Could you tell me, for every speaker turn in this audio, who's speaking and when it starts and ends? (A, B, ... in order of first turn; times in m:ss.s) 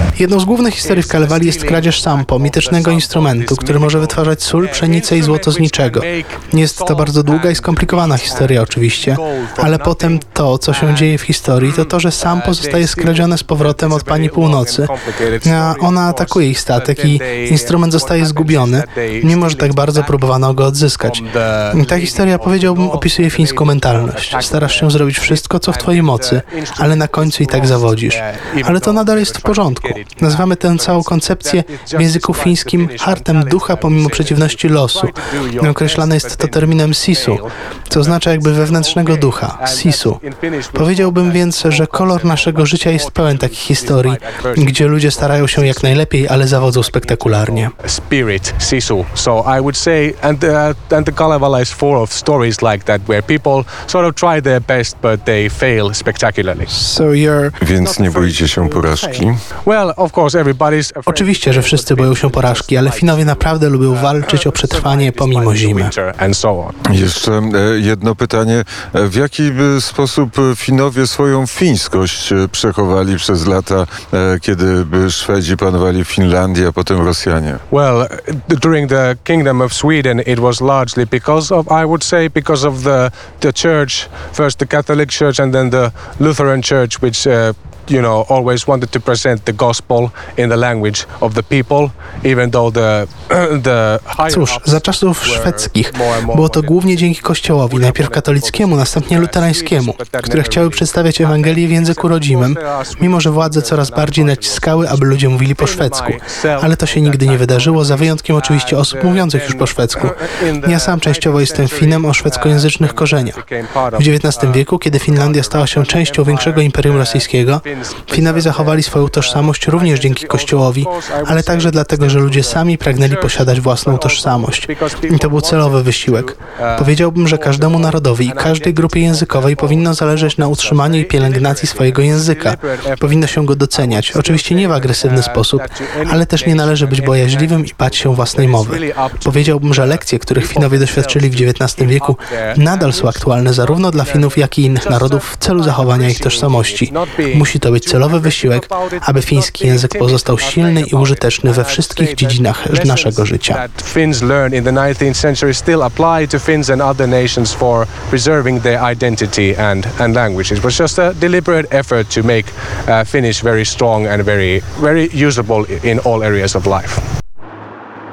0:00.2-0:14.9 A
0:00.8-0:56.7 B
0:15.4-0:40.2 A
0:40.8-0:47.7 A
0:56.7-0:59.3 C
0:57.6-0:59.4 D
0:59.6-1:06.8 B
1:01.1-1:05.9 A
1:06.9-1:17.6 D
1:17.7-2:47.0 B
1:34.3-1:53.4 A
1:54.0-2:33.6 A